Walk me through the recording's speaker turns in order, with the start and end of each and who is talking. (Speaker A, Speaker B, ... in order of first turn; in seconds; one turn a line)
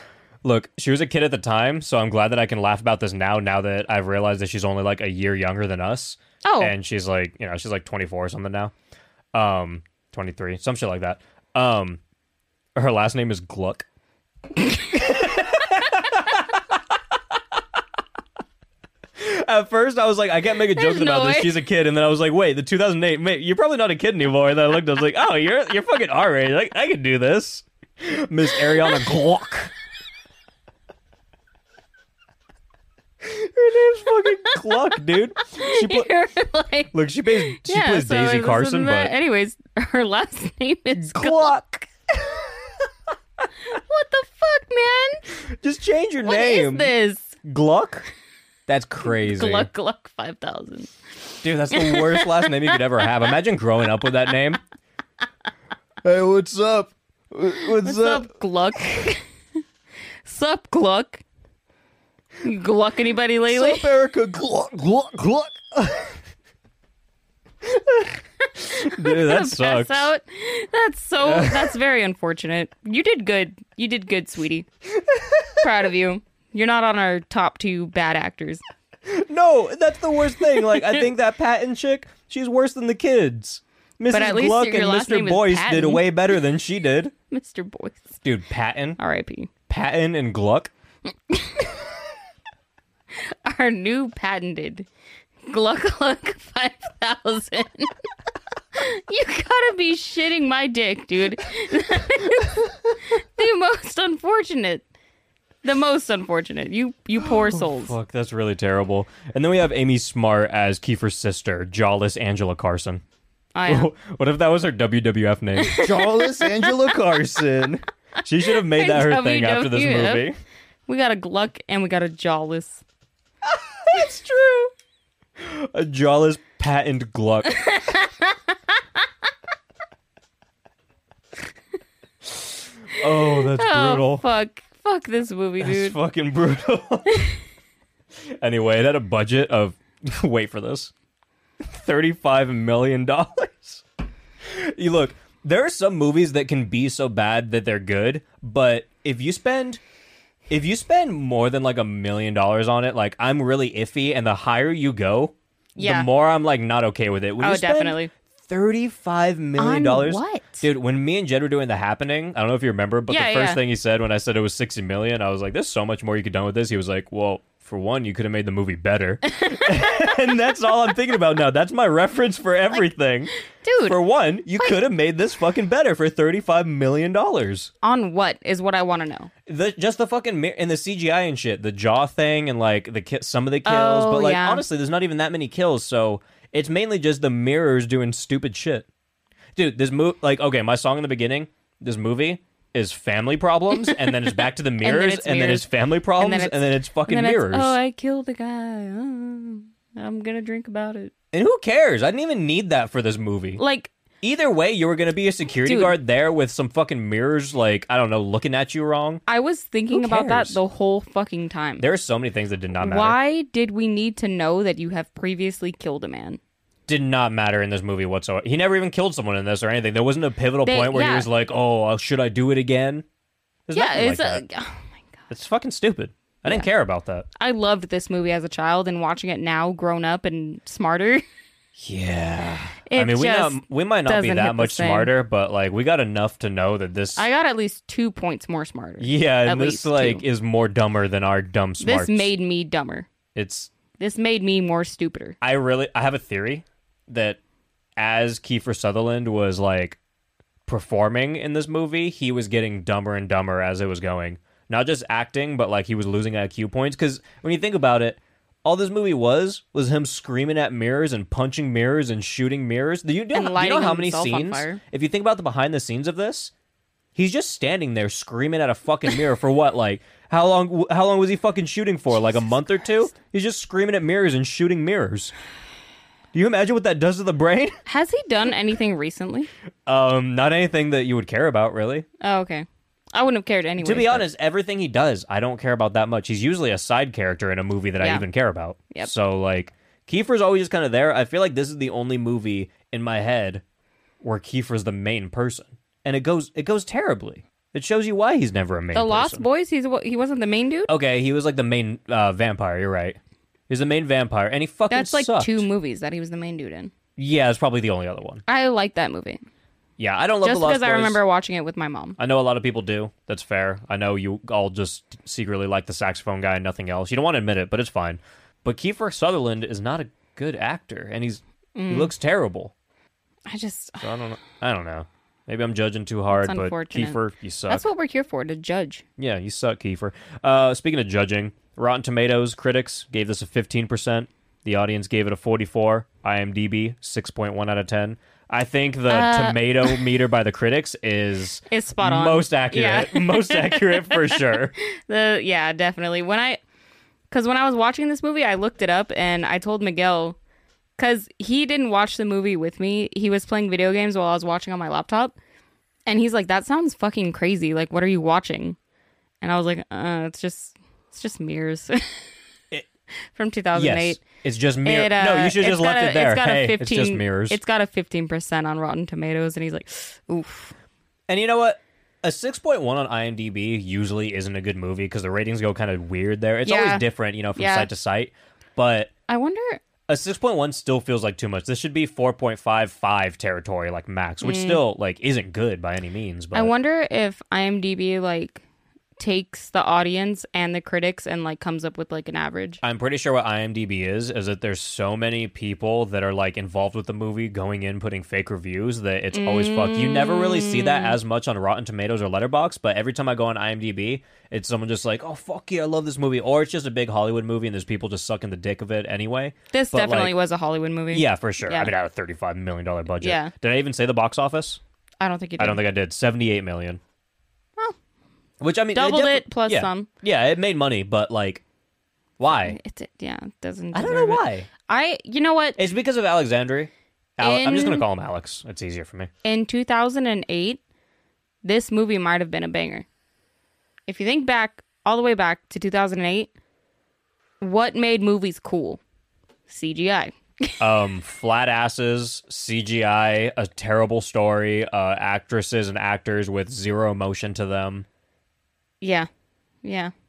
Speaker A: 0.4-8.7
Speaker B: 6.4-6.8
Speaker A: 9.3-12.0
Speaker A: 12.8-13.9
Speaker A: 14.9-16.8
Speaker A: 19.2-29.7
Speaker B: 20.7-21.6
Speaker A: 33.2-36.1
Speaker B: 34.5-34.8
Speaker B: 35.4-41.6
Speaker A: 36.9-39.1
Speaker A: 41.0-42.7
Speaker B: 43.7-45.2
Speaker A: 45.4-46.9
Speaker B: 46.2-47.4
Speaker A: 47.4-48.1
Speaker A: 48.7-49.7
Speaker B: 49.0-50.9
Speaker A: 51.4-54.6
Speaker B: 51.7-53.1
Speaker A: 56.0-58.3
Speaker B: 57.8-59.2
Speaker B: 60.3-61.2
Speaker B: 62.4-63.9
Speaker A: 63.5-66.2
Speaker A: 67.6-70.1
Speaker B: 68.8-74.7
Speaker A: 71.2-71.8
Speaker A: 74.9-75.6
Speaker B: 75.6-78.6
Speaker A: 79.1-87.1
Speaker B: 84.1-86.1
Speaker B: 87.3-88.2
Speaker A: 88.2-89.0
Speaker B: 89.0-89.5
Speaker A: 89.7-90.7
Speaker B: 91.3-91.8
Speaker B: 93.2-94.9
Speaker B: 95.5-97.9
Speaker B: 98.8-104.8
Speaker B: 105.6-108.0
Speaker A: 107.2-113.0
Speaker B: 113.5-113.9
Speaker A: 113.7-120.4
Speaker B: 115.6-116.9
Speaker B: 118.5-120.3
Speaker B: 120.9-122.8
Speaker A: 123.5-124.7
Speaker A: 125.4-127.6
Speaker B: 127.6-128.3
Speaker A: 133.0-134.3
Speaker B: 133.3-136.0
Speaker A: 135.6-137.3
Speaker A: 138.3-140.9
Speaker A: 141.6-143.8
Speaker A: 144.4-149.8
Speaker A: 150.5-173.3
Speaker B: 155.8-156.1
Speaker B: 157.4-158.1
Speaker B: 159.6-160.7
Speaker B: 163.1-163.6
Speaker B: 169.4-169.9
Speaker B: 173.6-174.0
Speaker A: 173.8-177.7
Speaker B: 177.8-179.3
Speaker A: 179.5-188.9
Speaker B: 183.7-184.7
Speaker A: 189.6-197.8
Speaker B: 193.8-194.1
Speaker B: 194.8-201.1
Speaker A: 201.3-203.6
Speaker B: 203.6-203.9
Speaker A: 204.2-209.2
Speaker B: 205.7-206.0
Speaker B: 209.3-211.8
Speaker A: 209.9-210.6
Speaker A: 211.8-213.2
Speaker B: 212.8-216.4
Speaker A: 216.9-223.1
Speaker B: 220.7-221.3
Speaker A: 223.7-224.4
Speaker B: 223.7-224.8
Speaker A: 225.3-227.3
Speaker B: 227.4-231.2
Speaker A: 231.8-237.2
Speaker B: 232.9-235.1
Speaker B: 237.2-240.2
Speaker A: 239.0-242.3
Speaker B: 241.8-243.1
Speaker A: 243.3-243.7
Speaker B: 244.0-245.4
Speaker A: 245.4-247.4
Speaker A: 248.0-250.0
Speaker A: 250.7-266.5
Speaker B: 263.3-264.8
Speaker A: 267.1-275.3
Speaker A: 276.3-277.8
Speaker B: 277.9-279.5
Speaker A: 279.9-282.1
Speaker B: 282.2-284.3
Speaker A: 283.8-293.6
Speaker B: 288.0-288.3
Speaker A: 294.2-299.4
Speaker B: 298.9-300.9
Speaker A: 300.9-305.7
Speaker B: 304.9-306.9
Speaker A: 307.2-308.4
Speaker B: 308.5-309.4
Speaker A: 310.0-311.2
Speaker B: 310.4-312.2
Speaker A: 312.2-322.7
Speaker B: 321.8-322.1
Speaker B: 323.5-324.1
Speaker A: 324.0-327.9
Speaker B: 326.3-329.0
Speaker A: 329.2-344.8
Speaker B: 339.1-340.1
Speaker B: 341.7-346.6
Speaker B: 347.3-350.4
Speaker B: 351.0-355.4
Speaker B: 356.1-358.8
Speaker B: 359.4-362.3
Speaker B: 363.3-364.2
Speaker A: 363.7-367.6
Speaker B: 364.8-370.7
Speaker A: 371.3-379.1
Speaker B: 376.6-377.9
Speaker B: 379.3-379.8
Speaker A: 380.1-386.7
Speaker B: 384.4-384.8
Speaker B: 386.5-388.6
Speaker B: 389.2-392.8
Speaker A: 392.8-410.4
Speaker B: 399.3-401.2
Speaker B: 409.7-411.9
Speaker A: 411.1-414.8
Speaker B: 413.2-413.5
Speaker B: 415.2-415.8
Speaker A: 415.6-417.0
Speaker A: 418.6-421.6
Speaker B: 418.9-420.1
Speaker A: 422.4-422.8
Speaker B: 422.6-425.8
Speaker A: 423.9-424.7
Speaker A: 425.8-429.3
Speaker B: 427.4-428.1
Speaker B: 429.4-430.8
Speaker B: 431.6-433.1
Speaker B: 434.1-436.5
Speaker B: 437.6-439.0
Speaker B: 439.7-440.8
Speaker A: 440.8-448.1
Speaker B: 449.0-449.3
Speaker B: 449.8-450.1